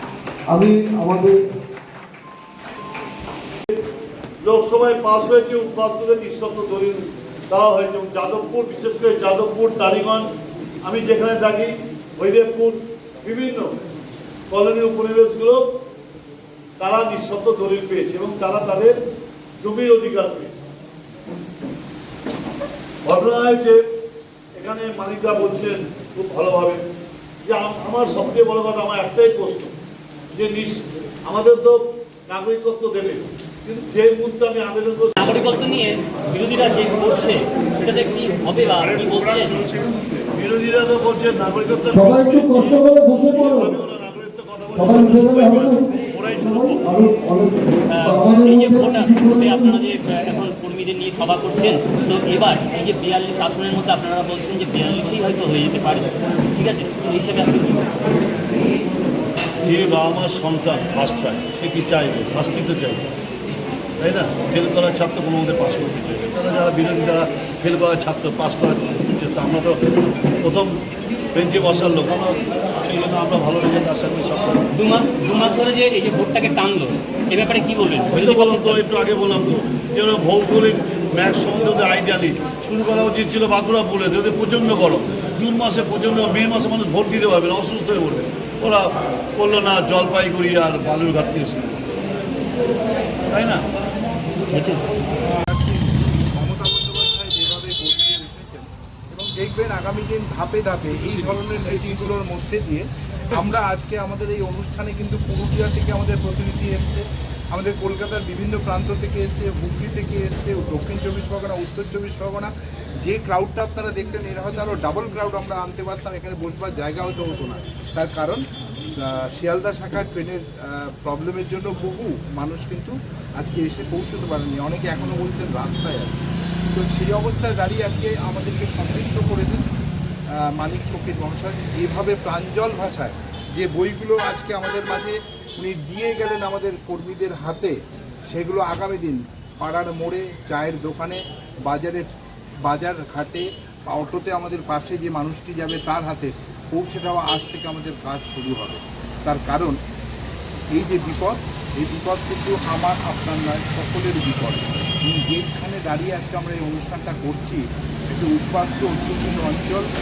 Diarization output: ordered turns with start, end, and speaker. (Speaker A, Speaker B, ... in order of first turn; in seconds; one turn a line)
Speaker A: 0.5-1.3
Speaker B: 0.6-1.2
Speaker B: 4.4-10.3
Speaker B: 10.8-13.8
Speaker B: 14.5-15.6
Speaker B: 16.8-18.9
Speaker B: 19.6-20.6
Speaker B: 23.0-23.8
Speaker B: 24.6-26.8
Speaker B: 27.5-29.7
Speaker B: 30.4-35.3
Speaker C: 35.2-39.8
Speaker B: 40.4-47.5
Speaker A: 41.9-43.7
Speaker A: 44.7-45.8
Speaker A: 46.4-47.2
Speaker C: 47.9-57.9
Speaker A: 48.0-49.8
Speaker B: 59.6-63.1
Speaker B: 64.0-69.8
Speaker B: 70.4-70.8
Speaker B: 71.3-74.7
Speaker C: 74.7-78.8
Speaker B: 78.1-91.9
Speaker B: 93.3-93.6
Speaker C: 94.5-94.8
Speaker D: 95.4-112.5
Speaker D: 113.0-118.4
Speaker D: 119.0-129.6
Speaker D: 130.4-137.7
Speaker D: 138.3-142.1
Speaker D: 142.7-149.8
Speaker D: 150.8-159.8